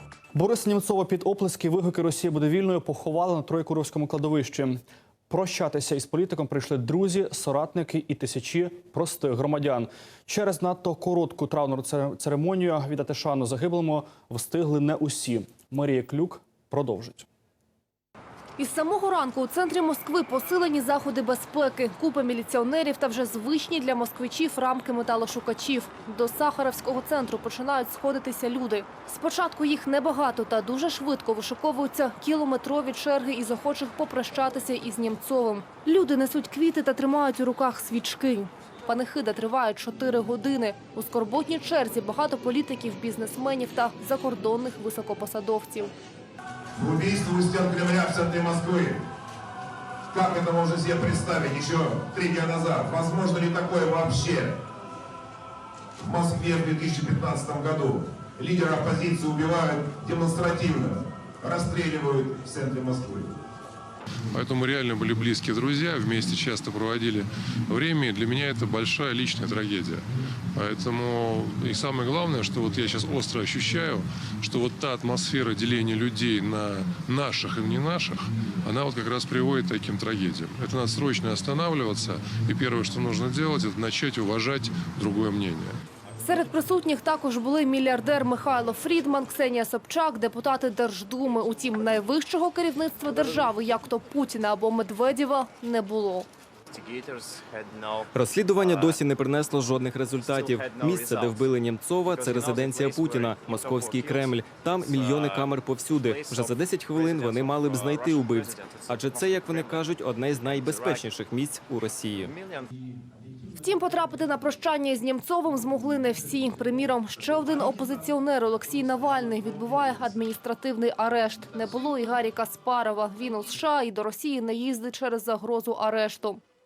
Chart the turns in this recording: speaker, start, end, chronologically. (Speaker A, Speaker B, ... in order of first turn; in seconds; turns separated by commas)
Speaker A: 0.3-17.3, Speaker B: 18.6-45.9, Speaker C: 46.7-49.0, Speaker C: 50.1-54.6, Speaker C: 56.0-63.4, Speaker D: 64.3-85.8, Speaker B: 86.2-96.3, Speaker E: 98.1-112.4, Speaker B: 113.6-126.4